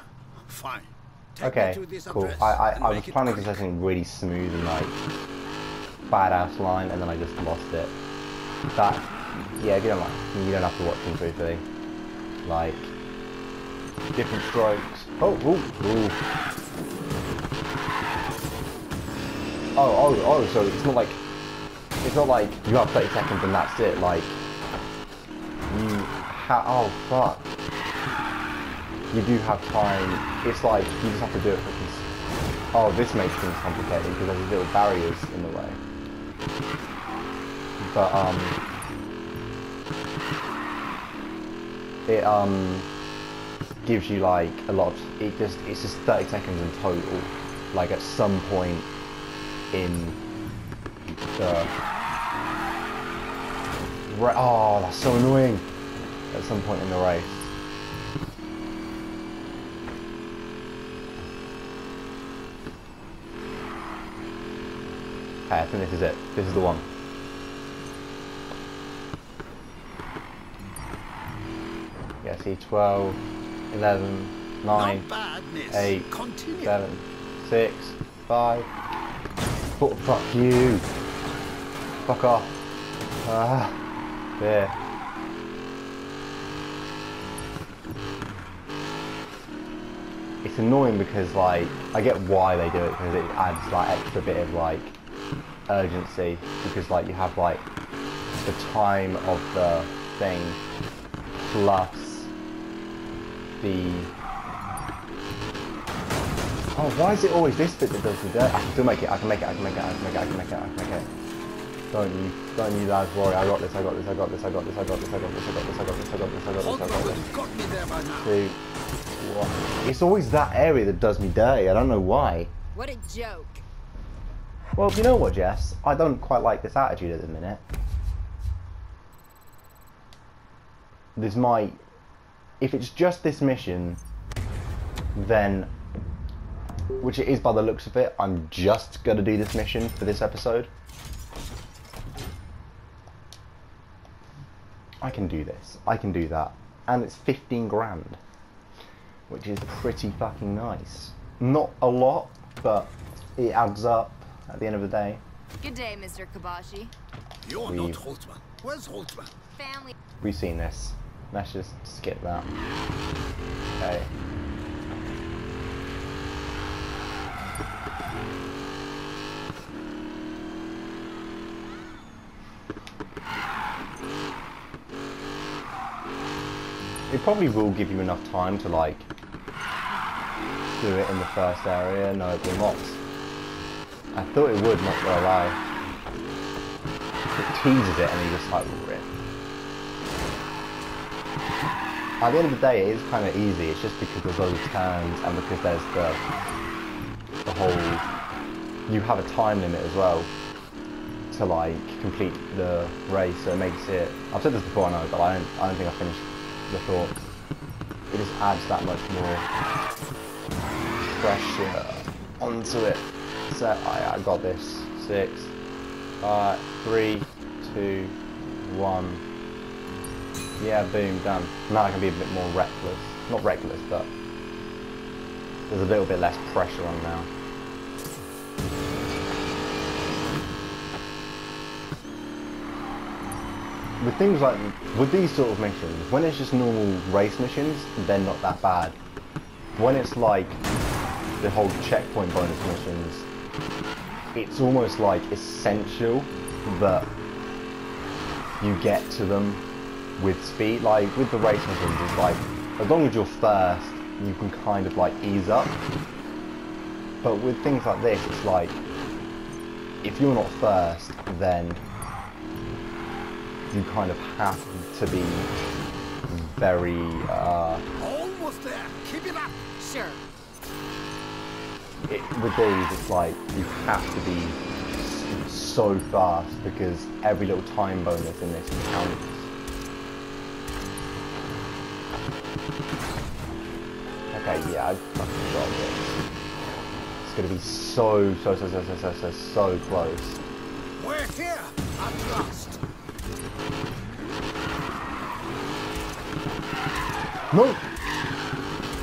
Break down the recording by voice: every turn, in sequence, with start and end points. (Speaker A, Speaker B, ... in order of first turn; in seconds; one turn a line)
Speaker A: 0.4-3.7
Speaker B: 1.4-5.0
Speaker B: 6.1-7.9
Speaker B: 8.7-11.6
Speaker B: 12.4-12.9
Speaker B: 14.1-16.2
Speaker B: 19.8-21.2
Speaker B: 22.0-24.4
Speaker B: 25.7-27.5
Speaker B: 29.1-32.0
Speaker B: 32.7-35.8
Speaker B: 37.8-38.6
Speaker B: 42.1-42.9
Speaker B: 43.8-48.9
Speaker B: 49.7-50.2
Speaker B: 51.4-51.7
Speaker B: 54.1-55.7
Speaker B: 56.3-57.5
Speaker B: 65.5-66.8
Speaker B: 72.2-73.2
Speaker B: 73.7-75.1
Speaker A: 74.7-76.8
Speaker B: 75.7-76.1
Speaker B: 76.6-78.7
Speaker B: 79.8-80.9
Speaker B: 82.0-82.5
Speaker B: 83.2-83.8
Speaker B: 84.4-84.7
Speaker B: 90.4-95.0
Speaker B: 95.7-97.7
Speaker B: 98.4-100.6
Speaker B: 101.5-102.3
Speaker B: 103.6-104.1
Speaker B: 106.7-111.1
Speaker B: 111.9-117.3
Speaker A: 116.6-118.4
Speaker B: 118.2-118.6
Speaker B: 119.2-122.5
Speaker C: 122.7-123.6
Speaker B: 124.8-127.6
Speaker B: 131.2-131.8
Speaker B: 132.6-134.0
Speaker B: 135.1-135.7
Speaker B: 137.0-140.7
Speaker B: 145.0-148.2
Speaker B: 149.3-155.2
Speaker C: 155.6-156.9
Speaker A: 157.4-159.3
Speaker B: 157.7-158.0
Speaker C: 159.5-159.9
Speaker B: 160.2-162.5
Speaker B: 163.7-164.1
Speaker B: 177.1-179.1
Speaker B: 180.8-183.0
Speaker B: 184.1-185.6
Speaker B: 187.3-189.1
Speaker B: 192.2-196.2
Speaker B: 197.4-198.0
Speaker B: 198.9-200.3
Speaker B: 201.3-207.1
Speaker B: 208.1-209.4
Speaker B: 211.1-215.5
Speaker B: 216.2-219.2
Speaker B: 220.6-224.1
Speaker B: 225.7-227.3
Speaker B: 234.0-239.0
Speaker B: 239.7-240.6
Speaker B: 241.4-243.2
Speaker B: 244.3-247.1
Speaker B: 248.6-249.6
Speaker B: 250.2-255.8
Speaker B: 257.2-258.8
Speaker B: 260.0-261.8
Speaker B: 263.7-265.5
Speaker B: 266.3-267.8
Speaker A: 268.0-269.6
Speaker C: 269.8-270.2
Speaker B: 272.0-279.5
Speaker B: 284.3-286.2
Speaker B: 287.2-290.4
Speaker A: 291.0-292.8
Speaker B: 297.5-297.9